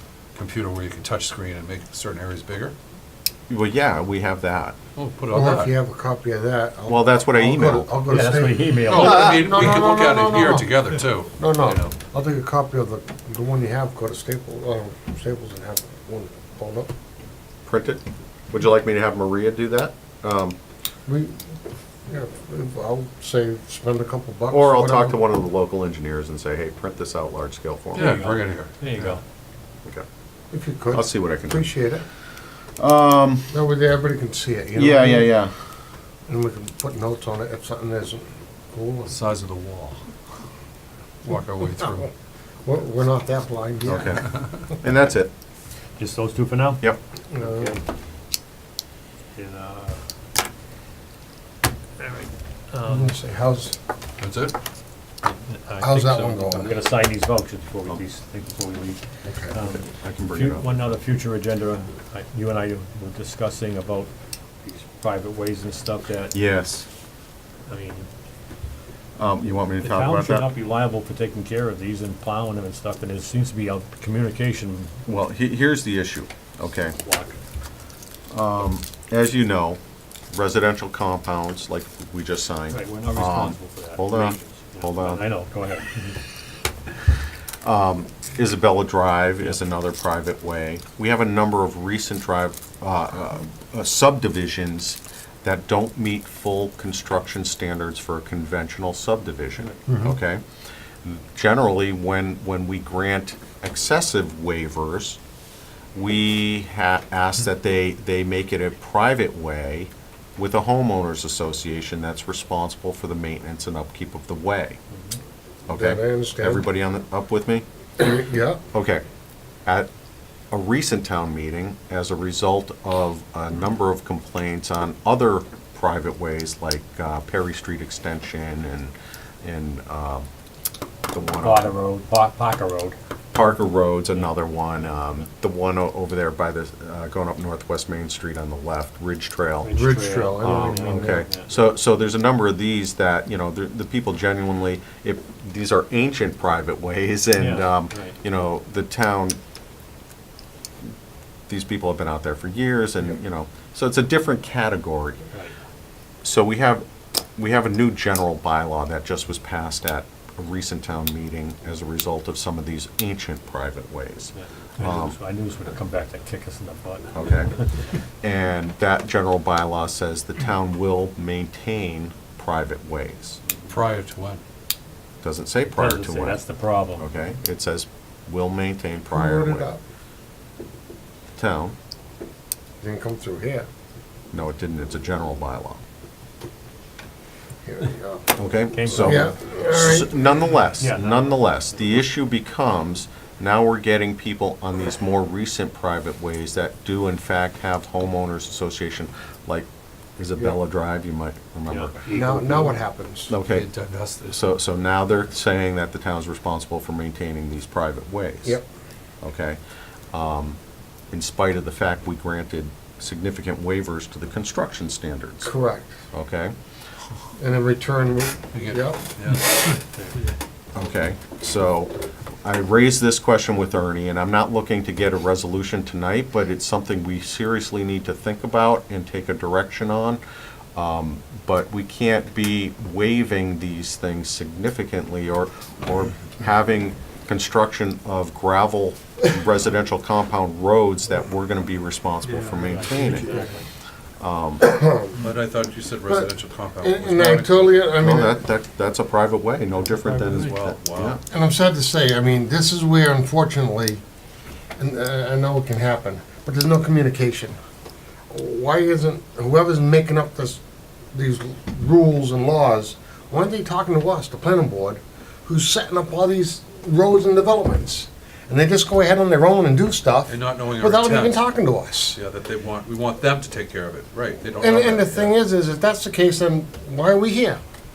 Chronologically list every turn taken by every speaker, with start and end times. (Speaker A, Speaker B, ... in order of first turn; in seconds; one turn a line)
Speaker A: 0.3-2.7
Speaker B: 3.5-4.8
Speaker A: 5.0-5.7
Speaker C: 5.3-10.8
Speaker B: 6.9-7.9
Speaker D: 8.1-9.4
Speaker A: 8.8-11.9
Speaker C: 11.4-16.9
Speaker B: 17.6-20.6
Speaker C: 21.1-21.4
Speaker C: 22.1-25.2
Speaker B: 24.5-28.2
Speaker A: 27.9-29.2
Speaker D: 27.9-29.2
Speaker C: 30.5-32.0
Speaker B: 30.9-31.7
Speaker B: 32.8-33.6
Speaker C: 33.5-35.3
Speaker B: 34.7-35.5
Speaker C: 36.3-39.2
Speaker A: 39.0-40.0
Speaker A: 41.2-42.1
Speaker C: 42.6-44.3
Speaker B: 43.9-45.3
Speaker D: 46.0-46.9
Speaker C: 47.3-47.8
Speaker D: 47.4-47.8
Speaker D: 49.3-50.0
Speaker D: 52.0-53.1
Speaker C: 52.9-53.8
Speaker A: 54.2-54.5
Speaker D: 55.2-64.1
Speaker C: 55.8-56.8
Speaker C: 59.2-59.6
Speaker B: 59.7-60.8
Speaker D: 64.6-66.4
Speaker B: 66.3-66.9
Speaker D: 67.7-68.1
Speaker B: 69.2-70.5
Speaker D: 69.8-75.0
Speaker B: 75.0-77.0
Speaker D: 77.0-77.4
Speaker B: 78.3-79.8
Speaker B: 80.3-85.2
Speaker D: 82.7-86.2
Speaker B: 87.6-100.4
Speaker C: 99.9-100.1
Speaker B: 101.0-105.2
Speaker B: 105.9-114.8
Speaker D: 114.9-115.2
Speaker B: 115.7-117.6
Speaker C: 115.7-116.7
Speaker C: 118.0-118.6
Speaker B: 118.7-119.0
Speaker B: 120.5-130.3
Speaker B: 131.1-131.8
Speaker D: 131.4-133.0
Speaker B: 133.3-139.7
Speaker D: 139.6-141.5
Speaker C: 139.7-141.2
Speaker B: 140.4-149.4
Speaker D: 147.3-148.2
Speaker B: 151.5-155.2
Speaker B: 156.2-156.8
Speaker B: 157.4-165.2
Speaker D: 164.3-167.8
Speaker B: 167.1-167.5
Speaker B: 168.2-173.4
Speaker A: 173.7-174.4
Speaker B: 175.2-176.4
Speaker D: 175.7-177.1
Speaker B: 177.0-179.7
Speaker C: 179.1-179.8
Speaker B: 181.4-181.7
Speaker C: 182.8-183.7
Speaker B: 184.3-185.8
Speaker C: 187.6-188.3
Speaker B: 188.3-202.1
Speaker D: 188.7-189.3
Speaker C: 188.9-190.2
Speaker D: 190.8-191.8
Speaker D: 201.7-202.5
Speaker C: 202.1-203.3
Speaker B: 203.3-203.7
Speaker A: 203.5-204.4
Speaker B: 204.3-208.6
Speaker B: 209.2-209.6
Speaker B: 210.1-210.6
Speaker B: 211.1-215.5
Speaker C: 215.4-215.9
Speaker B: 216.1-216.5
Speaker C: 217.4-219.0
Speaker A: 218.5-219.7
Speaker B: 220.7-221.9
Speaker B: 222.4-230.2
Speaker B: 230.7-243.5
Speaker D: 242.3-243.6
Speaker C: 242.8-243.6
Speaker B: 244.2-244.7
Speaker C: 244.6-245.2
Speaker A: 245.2-247.8
Speaker C: 246.1-248.4
Speaker B: 248.0-251.2
Speaker A: 250.1-251.2
Speaker C: 251.3-254.0
Speaker C: 254.8-257.6
Speaker C: 258.3-260.6
Speaker C: 261.1-272.2
Speaker A: 270.3-271.5
Speaker A: 272.1-275.3
Speaker C: 274.6-277.6